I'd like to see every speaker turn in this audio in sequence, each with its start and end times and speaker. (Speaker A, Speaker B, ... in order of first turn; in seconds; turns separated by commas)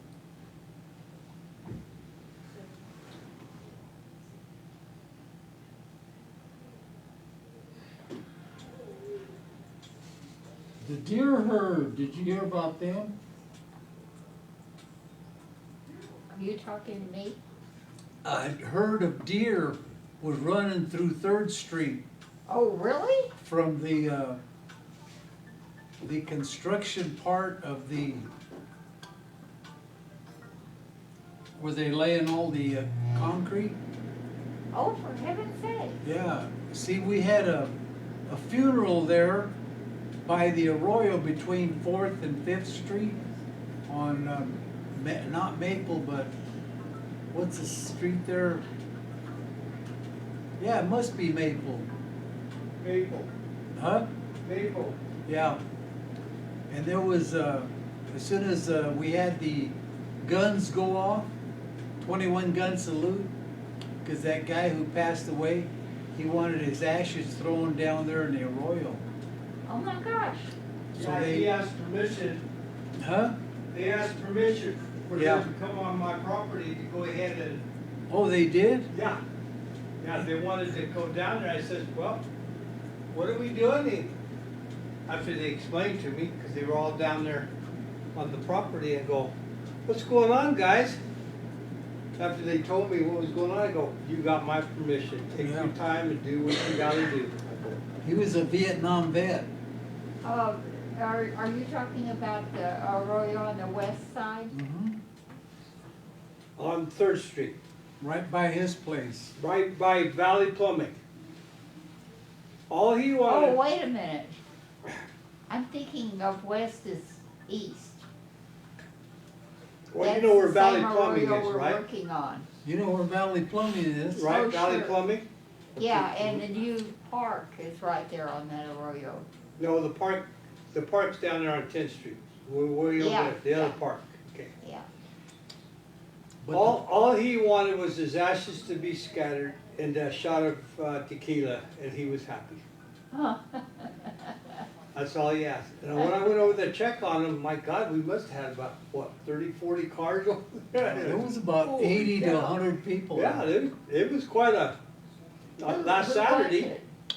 Speaker A: 10.8-13.2, Speaker B: 16.3-17.4, Speaker A: 18.2-22.0, Speaker B: 22.5-23.3, Speaker A: 23.4-24.4, Speaker A: 26.0-28.3, Speaker A: 31.6-33.8, Speaker B: 34.7-36.0, Speaker A: 36.0-37.8, Speaker A: 38.3-39.5, Speaker A: 40.2-43.2, Speaker A: 43.9-46.3, Speaker A: 47.3-48.6, Speaker A: 50.6-51.9, Speaker C: 52.8-53.3, Speaker A: 53.8-54.1, Speaker C: 54.4-55.0, Speaker A: 55.3-55.6, Speaker A: 56.7-61.3, Speaker A: 62.0-63.3, Speaker A: 64.0-69.0, Speaker B: 69.7-70.5, Speaker A: 70.9-71.5, Speaker C: 71.0-72.4, Speaker A: 73.0-73.4, Speaker C: 73.7-77.7, Speaker A: 75.2-75.5, Speaker A: 78.1-78.9, Speaker C: 78.9-79.2, Speaker C: 80.0-82.2, Speaker C: 83.1-84.2, Speaker C: 85.1-87.5, Speaker C: 88.2-89.3, Speaker C: 89.9-91.0, Speaker C: 92.2-97.8, Speaker A: 95.4-95.7, Speaker A: 98.0-99.5, Speaker B: 100.2-104.5, Speaker A: 104.5-105.0, Speaker C: 106.6-107.6, Speaker A: 108.0-109.3, Speaker C: 109.4-111.0, Speaker C: 112.7-113.6, Speaker B: 113.3-114.4, Speaker B: 115.5-118.0, Speaker C: 119.9-121.8, Speaker B: 120.0-122.5, Speaker A: 122.6-124.3, Speaker C: 124.2-125.3, Speaker B: 124.2-125.0, Speaker B: 125.8-129.3, Speaker C: 125.9-126.4, Speaker C: 129.6-134.5, Speaker B: 133.0-133.8, Speaker B: 134.6-134.9, Speaker A: 136.4-136.8, Speaker C: 136.5-142.6, Speaker B: 143.1-144.1, Speaker C: 144.9-152.2, Speaker A: 150.8-153.5, Speaker B: 152.0-152.6, Speaker C: 153.1-154.8, Speaker C: 155.6-156.7, Speaker B: 155.6-156.9